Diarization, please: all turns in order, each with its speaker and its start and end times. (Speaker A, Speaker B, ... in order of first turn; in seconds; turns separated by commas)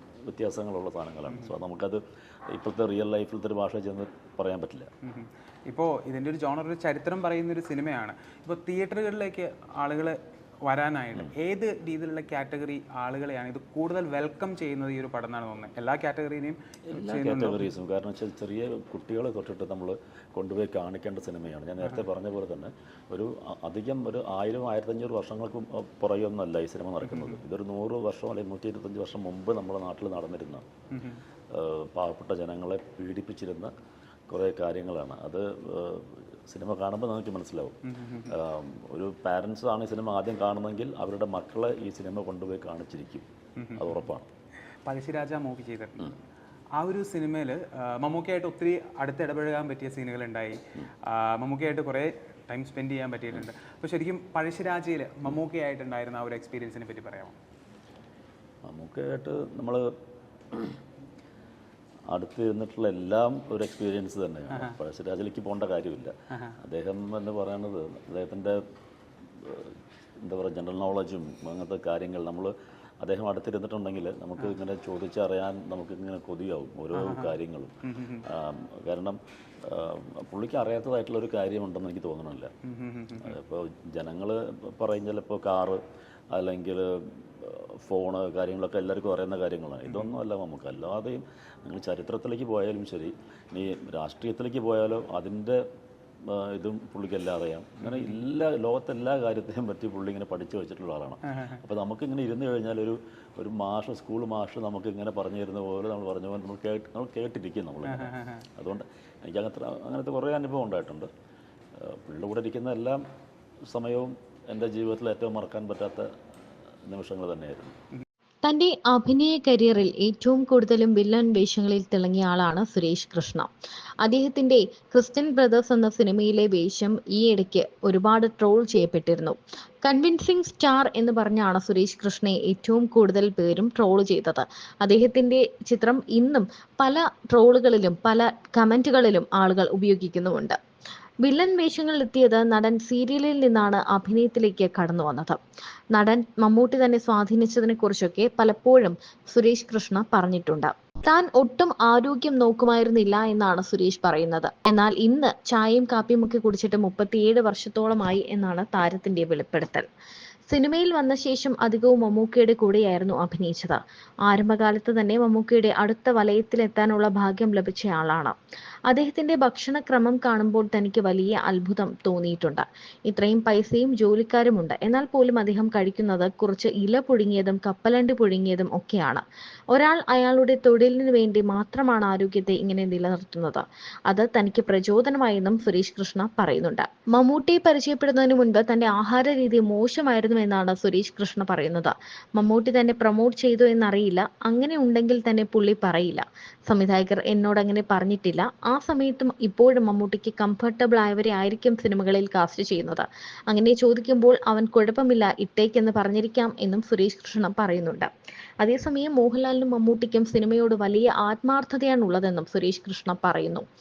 Speaker A: 0.2-4.9, Speaker B: 5.0-17.7, Speaker A: 16.9-30.7, Speaker B: 27.1-27.4, Speaker B: 30.9-31.2, Speaker A: 31.5-33.7, Speaker A: 34.3-37.8, Speaker B: 37.9-38.3, Speaker A: 38.3-44.3, Speaker B: 43.6-44.0, Speaker B: 44.9-46.1, Speaker B: 46.8-57.4, Speaker A: 58.6-59.9, Speaker A: 62.1-68.6, Speaker A: 69.4-77.7, Speaker B: 77.0-78.2, Speaker A: 78.2-82.5, Speaker B: 82.6-83.4, Speaker A: 83.2-85.8, Speaker A: 86.3-95.6, Speaker A: 96.2-111.1, Speaker B: 97.8-98.2, Speaker B: 101.3-101.6, Speaker B: 107.9-108.5, Speaker A: 111.8-113.0, Speaker A: 113.7-116.1, Speaker A: 116.9-117.8, Speaker C: 118.4-123.5, Speaker C: 124.0-140.6, Speaker C: 141.2-145.4, Speaker C: 145.9-159.9, Speaker C: 160.5-168.3, Speaker C: 168.9-208.1, Speaker C: 208.6-213.7